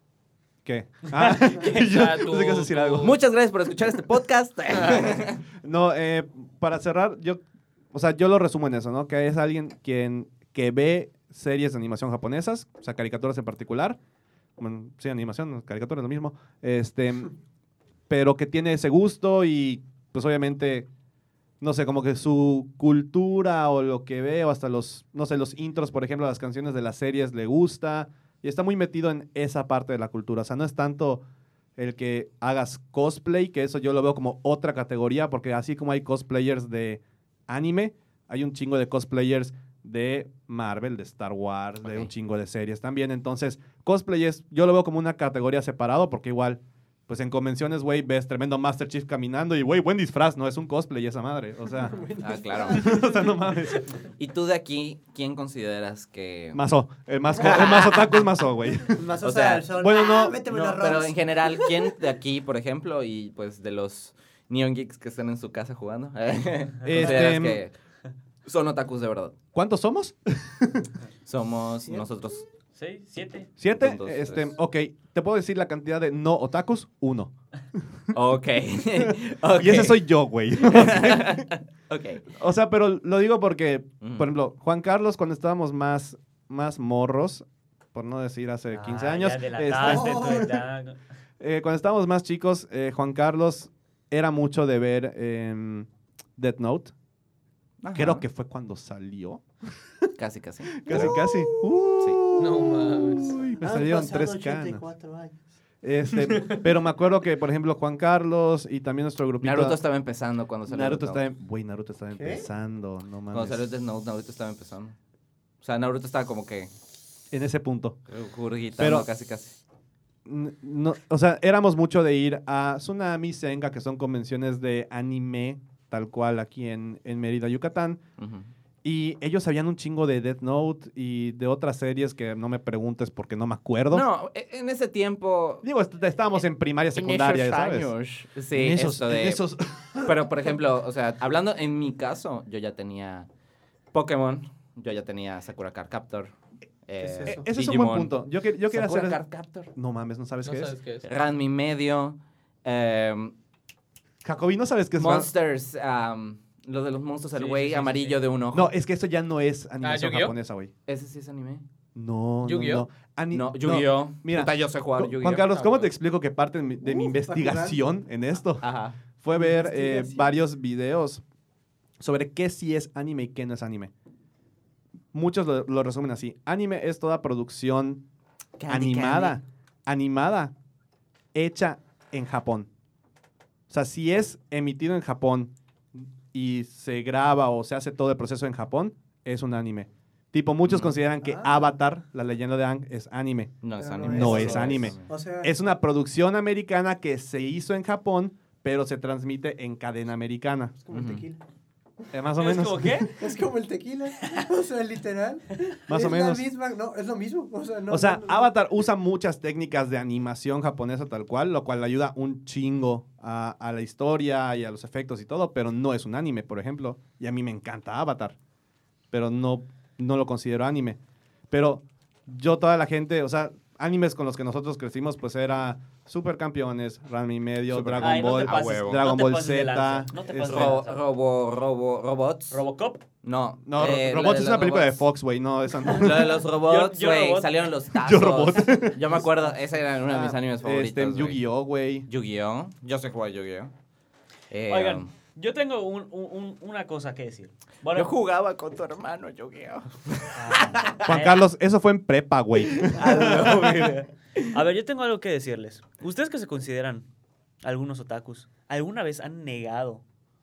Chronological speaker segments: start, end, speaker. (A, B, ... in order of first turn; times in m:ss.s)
0:00.6-0:03.1 A
0:01.4-0:03.1 B
0:03.0-0:05.4 C
0:05.6-0:07.4 A
0:07.9-0:14.0 A
0:14.6-0:17.3 A
0:18.1-0:20.9 A
0:21.6-0:31.2 A
0:31.8-0:52.0 A
0:41.8-0:42.1 C
0:51.8-0:53.6 D
0:52.2-0:53.0 C
0:52.7-0:53.8 A
0:54.2-0:56.6 C
0:56.5-0:59.1 A
0:57.4-0:58.2 C
0:58.9-1:01.6 D
0:59.2-0:59.7 C
0:59.7-1:00.4 A
1:00.5-1:07.7 C
1:06.8-1:07.6 A
1:08.4-1:09.4 C
1:09.5-1:10.9 A
1:11.2-1:12.4 C
1:12.7-1:13.5 E
1:13.6-1:17.3 A
1:13.8-1:14.5 C
1:18.1-1:20.1 C
1:19.0-1:21.4 A
1:20.6-1:22.4 C
1:22.4-1:30.3 A
1:24.0-1:24.3 C
1:28.7-1:31.0 E
1:29.8-1:30.6 D
1:31.4-1:36.9 A
1:37.8-1:38.2 C
1:37.9-1:39.4 A
1:40.2-1:41.2 C
1:40.8-1:44.8 A
1:42.4-1:43.4 B
1:43.6-1:45.4 D
1:45.8-1:49.8 A
1:49.4-1:51.2 C
1:50.7-1:53.6 A
1:52.1-1:52.4 D
1:53.3-1:55.0 C
1:55.6-1:56.7 C
1:57.3-1:58.0 A
1:58.1-1:59.6 C
1:58.8-1:59.1 A
2:00.2-2:08.0 A
2:08.2-2:08.5 C
2:08.8-2:14.0 A
2:13.9-2:15.6 C
2:15.6-2:17.9 A
2:16.9-2:19.4 C
2:18.5-2:20.1 A
2:20.0-2:23.3 C
2:23.9-2:26.3 C
2:26.8-2:28.1 C
2:27.0-2:27.5 D
2:27.2-2:29.2 A
2:28.7-2:29.7 C
2:29.7-2:30.7 A
2:30.4-2:31.0 B
2:31.0-2:33.3 C
2:34.2-2:35.3 A
2:35.0-2:38.7 C
2:37.4-2:38.1 E
2:38.5-2:40.7 A
2:39.8-2:40.3 B
2:40.9-2:41.6 C
2:41.9-2:48.6 A
2:42.4-2:42.8 B
2:43.3-2:45.9 C
2:46.8-2:47.8 D
2:48.6-2:49.0 C
2:49.2-2:51.2 A
2:49.3-2:50.4 D
2:52.0-2:53.9 A
2:55.1-2:58.0 A
2:58.6-2:59.4 C
2:58.7-3:00.5 A
3:01.3-3:02.7 A
3:03.7-3:20.8 A
3:10.6-3:11.0 C
3:11.2-3:11.7 D
3:13.6-3:15.1 C
3:13.8-3:15.5 D
3:20.8-3:21.4 D
3:20.9-3:21.2 C
3:22.1-3:23.1 A
3:22.4-3:23.2 E
3:23.1-3:28.5 D
3:25.9-3:26.5 A
3:27.9-3:38.4 A
3:39.1-3:41.0 A
3:41.5-3:50.7 A
3:47.7-3:49.1 C
3:48.0-3:51.0 E
3:50.4-3:52.6 C
3:52.5-3:53.0 E
3:53.2-3:55.0 C
3:53.6-3:56.4 A
3:55.8-4:01.4 C
3:56.6-3:57.5 E
3:58.0-3:59.0 A
4:00.1-4:02.1 A
4:02.1-4:03.7 C
4:04.5-4:05.1 C
4:04.7-4:08.1 E
4:07.9-4:11.1 C
4:10.3-4:11.4 E
4:11.0-4:13.3 A
4:12.6-4:14.5 C
4:12.9-4:17.1 E
4:17.6-4:20.0 E